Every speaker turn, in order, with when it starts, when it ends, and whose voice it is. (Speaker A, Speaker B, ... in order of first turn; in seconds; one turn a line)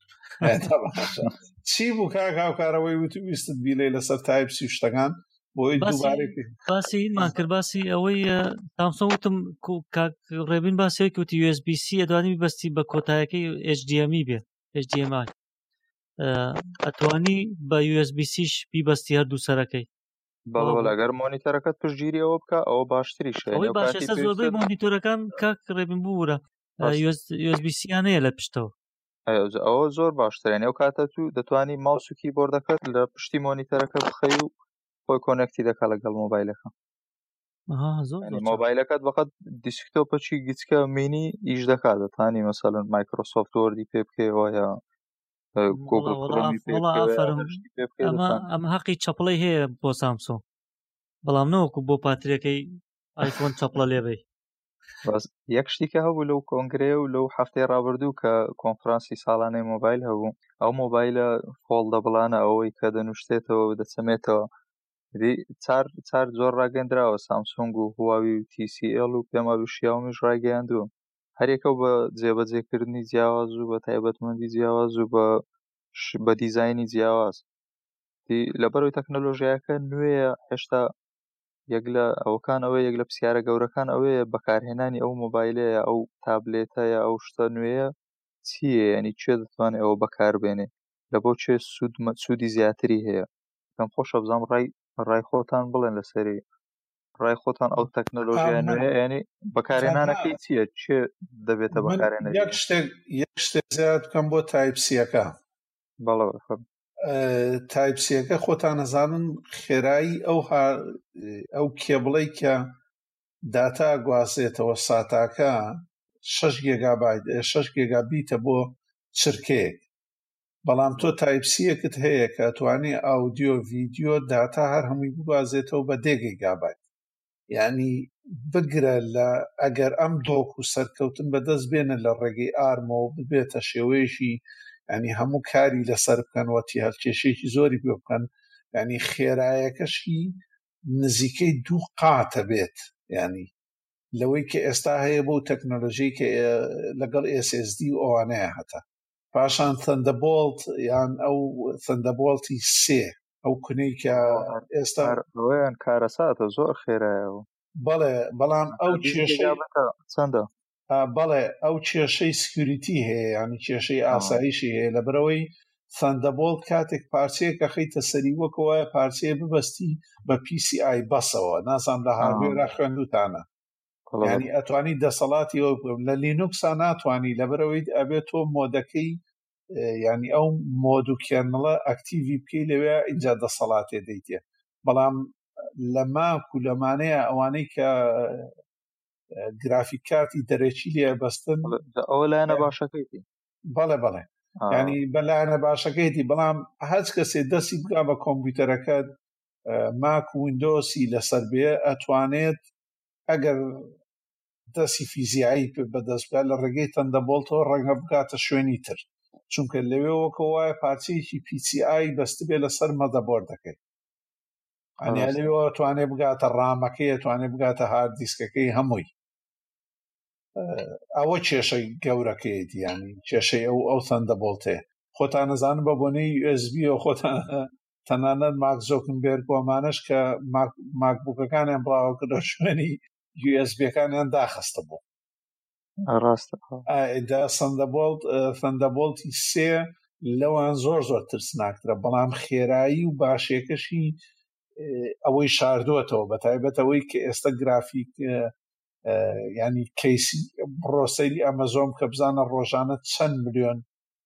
Speaker A: 0.4-6.5
Speaker B: 5.8-15.3
Speaker B: 16.2-19.9
Speaker C: 20.5-24.6
Speaker B: 20.6-20.9
Speaker B: 23.5-28.7
Speaker C: 29.3-34.5
Speaker C: 35.1-36.7
Speaker B: 37.7-38.6
Speaker C: 38.2-44.8
Speaker C: 45.6-48.4
Speaker B: 45.7-50.4
Speaker B: 51.2-52.6
Speaker B: 53.2-54.2
Speaker C: 55.0-64.5
Speaker C: 65.2-75.4
Speaker C: 75.9-77.5
Speaker C: 78.3-80.9
Speaker C: 81.7-87.9
Speaker C: 88.4-96.4
Speaker C: 97.2-102.6
Speaker A: 98.3-98.8
Speaker A: 99.8-100.4
Speaker A: 101.7-105.4
Speaker C: 106.0-106.6
Speaker A: 107.0-112.7
Speaker A: 113.5-115.6
Speaker A: 116.2-119.8
Speaker A: 120.7-126.8
Speaker A: 127.5-140.4
Speaker A: 140.9-143.5
Speaker A: 144.2-148.8
Speaker A: 149.3-155.2
Speaker C: 154.1-157.5
Speaker A: 157.8-159.6
Speaker C: 158.8-160.5
Speaker A: 160.9-173.4
Speaker C: 164.1-164.4
Speaker C: 172.2-172.7
Speaker C: 174.1-174.5
Speaker A: 174.2-179.2
Speaker A: 179.8-185.3
Speaker A: 185.9-188.5
Speaker A: 189.6-191.8
Speaker C: 191.7-193.2
Speaker A: 193.7-199.0
Speaker C: 194.6-195.0
Speaker A: 199.7-202.6
Speaker A: 203.3-203.9
Speaker A: 204.7-213.8
Speaker A: 215.0-219.1
Speaker C: 215.1-215.3
Speaker A: 220.6-235.0
Speaker C: 236.1-236.8
Speaker A: 236.9-244.2
Speaker A: 244.8-248.5
Speaker A: 249.1-253.8